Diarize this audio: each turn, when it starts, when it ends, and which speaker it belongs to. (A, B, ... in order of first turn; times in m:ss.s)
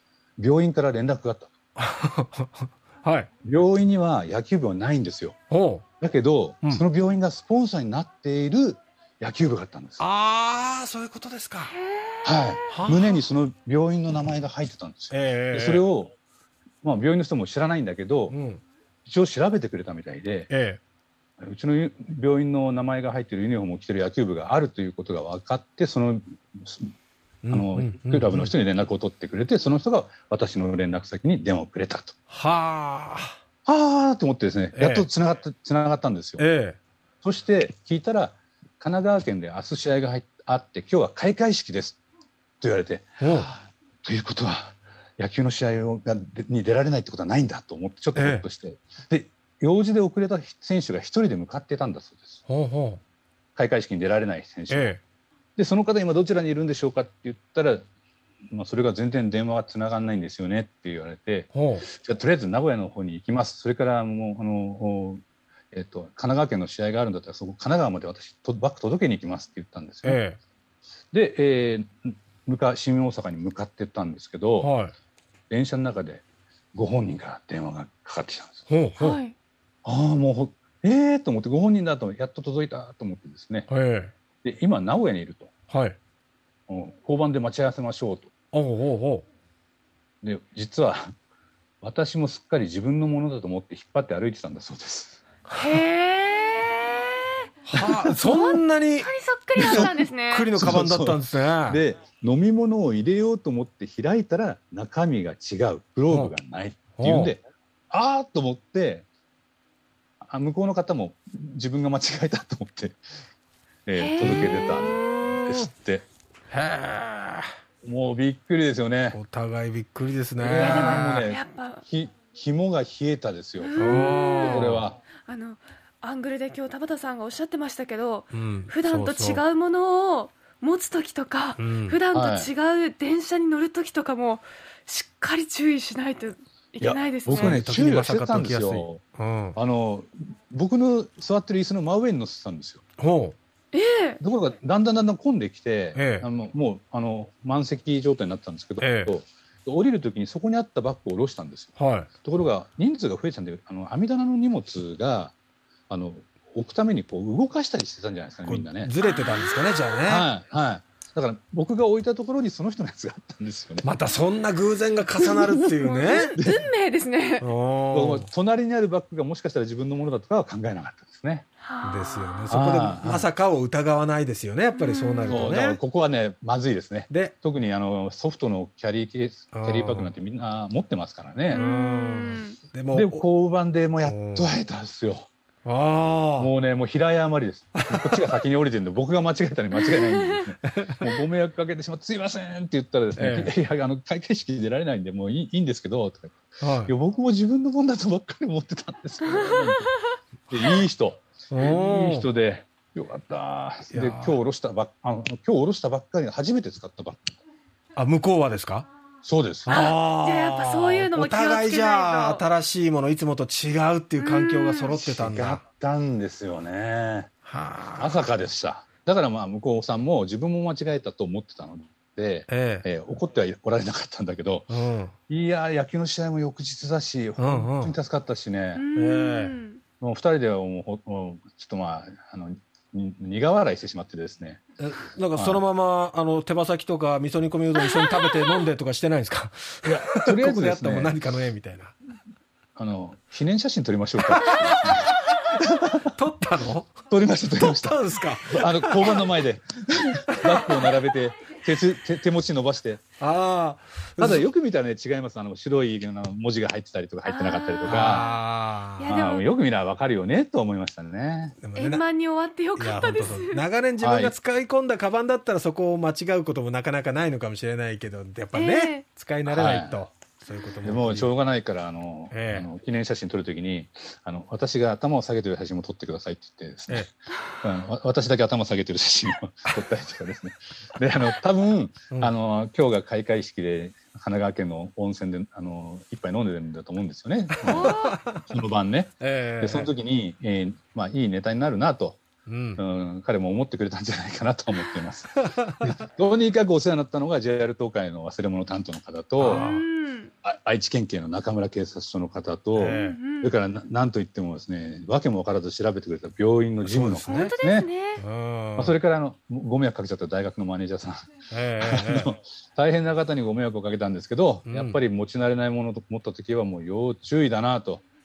0:00.4-0:01.5 A
0:01.8-0:03.3 B
0:03.4-0:05.4 A
0:05.5-0:05.8 B
0:06.0-0:10.0 A
0:10.0-0:11.8 B
0:11.8-0:12.7 C
0:12.2-0:16.1 A
0:12.7-0:13.2 B
0:15.1-0:15.8 B
0:16.8-0:18.4 A
0:18.3-0:18.6 B
0:19.0-0:20.5 A
0:20.5-0:20.8 B
0:21.4-0:26.9 A
0:27.4-0:28.5 B
0:27.5-0:32.1 A
0:32.3-0:33.4 B
0:33.6-0:36.4 A
0:34.7-0:35.1 B
0:36.4-0:36.8 B
0:37.2-0:42.0 A
0:42.6-0:52.4 A
0:43.2-0:43.5 B
0:48.1-0:48.4 B
0:52.5-0:53.0 B
0:53.5-0:54.9 A
0:54.7-0:55.0 B
0:55.6-0:57.8 A
0:58.5-1:10.2 A
1:01.5-1:01.8 B
1:10.0-1:10.4 B
1:11.1-1:14.7 A
1:14.6-1:14.9 B
1:15.5-1:18.7 A
1:18.7-1:19.2 B
1:19.0-1:19.3 C
1:19.8-1:23.7 A
1:23.7-1:24.1 B
1:24.4-1:25.5 A
1:25.7-1:26.0 B
1:26.7-1:28.3 A
1:28.5-1:29.2 B
1:30.2-1:31.0 A
1:31.8-1:35.2 A
1:35.5-1:37.5 C
1:37.7-1:41.8 B
1:37.7-1:38.2 A
1:38.1-1:40.5 C
1:39.6-1:39.9 A
1:40.5-1:49.0 A
1:47.0-1:47.4 B
1:50.2-1:53.0 A
1:53.8-1:56.0 A
1:53.9-1:54.7 C
1:54.2-1:55.7 B
1:56.5-1:57.5 B
1:57.8-1:59.2 A
1:59.1-2:01.3 B
2:00.4-2:05.0 A
2:00.6-2:01.8 C
2:03.6-2:17.6 C
2:03.8-2:04.9 B
2:08.3-2:09.4 B
2:11.6-2:12.0 B
2:12.1-2:12.5 A
2:16.8-2:19.0 A
2:17.3-2:19.6 B
2:19.6-2:22.8 A
2:23.0-2:23.4 B
2:23.7-2:24.2 C
2:24.2-2:35.4 A
2:25.9-2:26.3 B
2:28.8-2:29.1 B
2:31.8-2:32.1 B
2:35.9-2:38.9 A
2:38.4-2:40.3 B
2:39.0-2:39.7 C
2:40.0-2:43.8 A
2:43.8-2:46.4 B
2:45.5-2:47.4 C
2:47.4-2:48.3 B
2:47.9-2:51.4 A
2:51.6-2:52.5 C
2:51.8-2:55.8 B
2:52.5-2:53.3 A
2:54.7-2:55.5 C
2:55.3-3:01.6 A
2:57.1-2:57.3 B
2:59.5-3:00.1 B
3:01.5-3:02.6 C
3:01.5-3:03.2 B
3:02.9-3:05.3 A
3:04.0-3:04.5 B
3:05.6-3:06.5 B
3:06.3-3:19.9 A
3:07.8-3:08.1 B
3:09.9-3:10.5 C
3:13.2-3:13.5 B
3:16.6-3:16.9 B
3:19.2-3:20.2 C
3:20.5-3:27.3 A
3:21.5-3:22.3 B
3:23.9-3:24.4 B
3:28.0-3:28.9 B
3:29.2-3:29.7 A
3:29.6-3:35.6 B
3:29.7-3:32.4 C
3:34.2-3:34.9 C
3:34.9-3:37.3 A
3:37.4-3:38.3 B
3:38.0-3:44.7 A
3:42.5-3:42.9 B
3:44.7-3:45.1 B
3:45.3-3:48.8 A
3:47.4-3:47.9 B
3:48.7-3:49.8 C
3:49.0-3:49.5 B
3:50.0-3:54.6 A
3:54.8-4:01.9 B
3:55.3-3:55.6 A
3:57.8-3:58.6 C
3:59.8-4:01.2 A
4:02.8-4:06.1 A
4:04.3-4:06.9 B
4:07.0-4:13.0 A
4:07.6-4:09.2 B
4:10.3-4:10.9 B
4:13.2-4:14.5 B
4:14.2-4:18.2 A
4:17.2-4:18.4 C
4:17.8-4:19.1 B
4:19.0-4:19.5 C
4:19.1-4:21.6 A
4:21.6-4:22.0 B
4:21.8-4:23.6 C
4:22.8-4:31.3 B
4:24.0-4:24.3 A
4:28.5-4:29.0 C
4:29.5-4:30.0 A
4:30.8-4:52.2 A
4:32.3-4:32.7 B
4:47.6-4:48.4 B
4:47.6-4:48.2 C
4:49.2-4:49.9 B
4:52.4-4:52.8 B
4:52.8-4:59.7 A
4:55.4-4:55.9 B
4:59.4-4:59.8 B
4:59.4-5:00.3 C
5:00.4-5:07.9 A
5:02.7-5:03.2 B
5:02.8-5:03.6 C
5:06.8-5:07.5 B
5:07.3-5:08.2 C
5:08.2-5:08.9 B
5:08.8-5:11.3 A
5:11.5-5:12.3 B
5:11.8-5:18.0 A
5:14.6-5:15.0 B